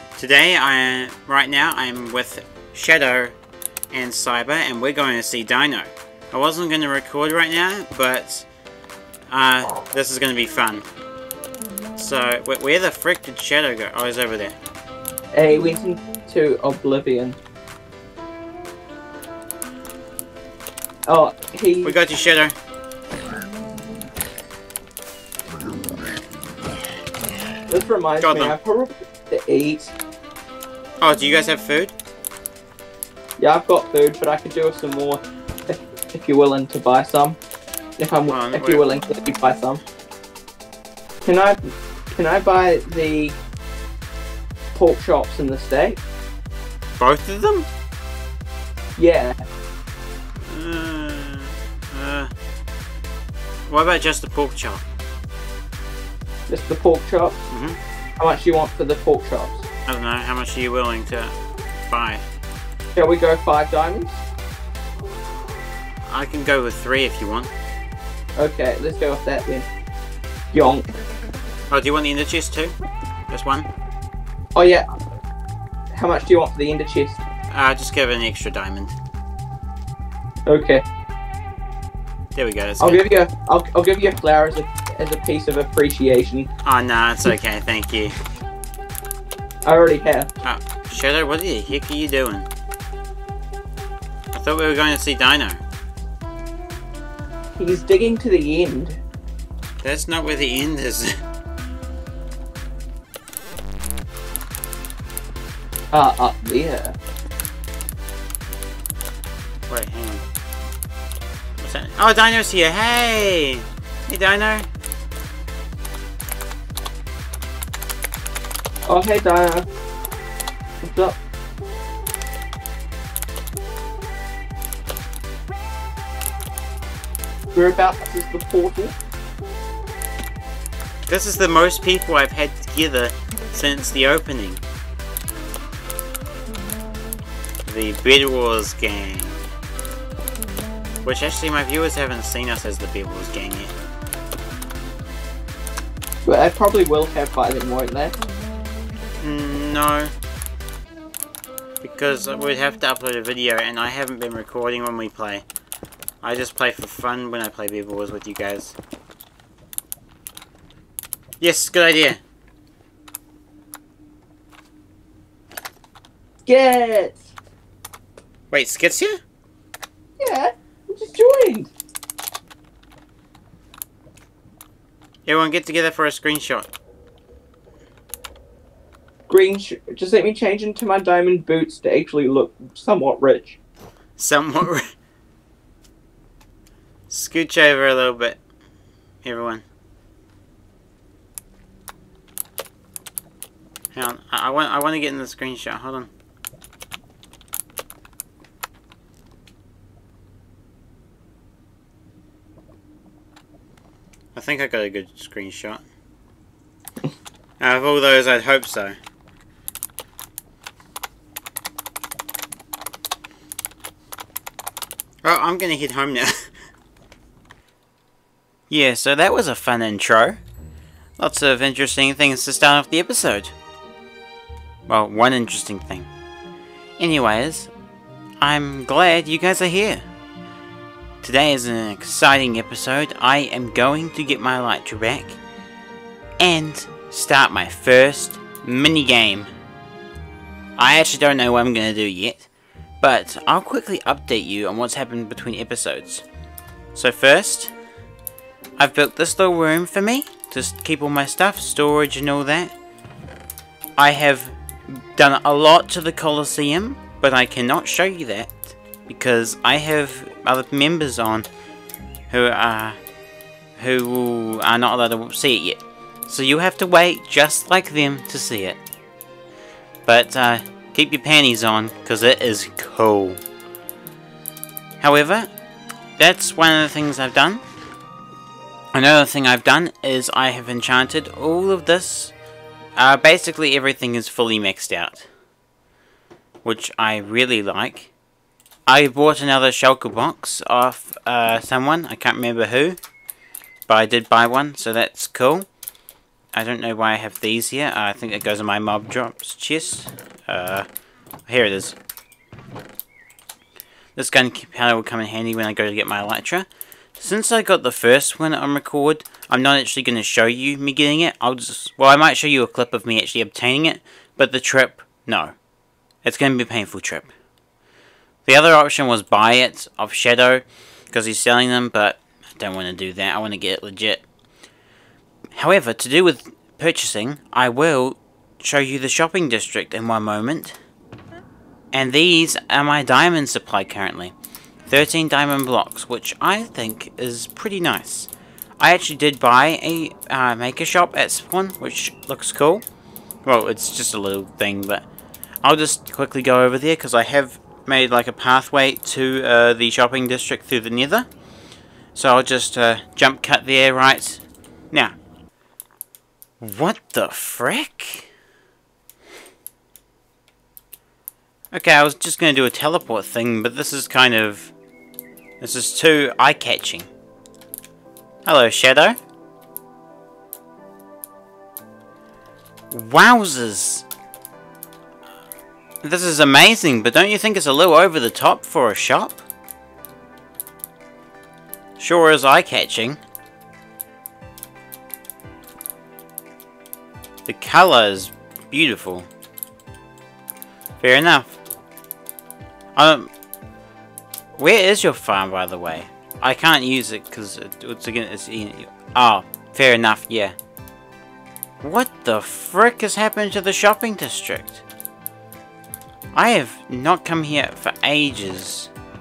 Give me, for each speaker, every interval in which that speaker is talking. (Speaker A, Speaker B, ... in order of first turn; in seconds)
Speaker A: 0.2-3.4, 3.9-8.5, 9.3-10.9, 12.0-14.6, 21.8-22.6, 28.2-28.6, 31.0-31.9, 38.3-38.9, 47.0-47.7, 50.4-52.3, 53.7-54.9, 57.5-57.8, 59.9-61.4, 61.9-62.2, 66.1-67.5, 71.7-72.8, 73.3-73.7, 77.5-79.0, 82.3-83.0, 86.7-88.2, 90.4-92.5, 94.3-95.6, 99.8-101.2, 109.7-110.2, 111.6-114.7, 131.1-134.6, 137.7-139.4, 141.0-143.7, 149.2-150.1, 151.8-155.4, 156.2-158.8, 161.4-162.2, 168.5-169.2, 175.2-176.7, 184.2-184.9, 187.1-188.4, 189.2-189.7, 193.9-196.1, 204.3-205.8, 207.6-209.0, 215.2-216.5, 218.7-220.4, 221.2-223.6, 224.9-226.1, 227.0-227.7, 228.4-230.1, 231.2-235.4, 236.4-239.5, 240.8-242.5, 243.0-246.2, 246.9-247.7, 248.8-252.7, 254.0-261.5, 262.3-263.0, 263.8-268.8, 270.1-273.4, 275.0-275.5, 276.2-277.6, 278.9-282.3, 283.0-285.3, 286.6-288.1, 288.9-293.0, 293.9-295.7, 296.5-300.9, 301.5-302.0, 304.2-315.5, 316.2-317.3, 318.5-324.2, 325.5-330.8, 331.9-334.3, 334.9-342.8, 343.4-345.1, 345.6-351.3, 352.1-355.1, 356.6-358.3, 361.7-364.7, 365.6-367.1, 368.5-369.2, 372.9-374.1, 376.0-379.4, 382.0-383.2, 387.5-389.3, 391.0-391.6, 393.0-393.3, 394.6-400.6, 401.8-404.8, 406.3-408.9
Speaker B: 15.3-17.4, 21.1-21.9, 27.7-29.9, 33.4-37.4, 38.0-39.8, 41.2-43.4, 44.7-46.0, 49.0-49.4, 56.5-57.4, 58.2-59.7, 63.0-64.2, 68.4-69.7, 70.5-70.9, 74.5-74.9, 75.9-77.2, 80.5-80.8, 82.8-86.5, 89.7-90.3, 97.6-99.0, 105.9-107.0, 118.9-119.7, 120.8-121.2, 127.5-128.9, 146.3-148.2, 166.5-167.3, 170.2-171.7, 179.3-183.6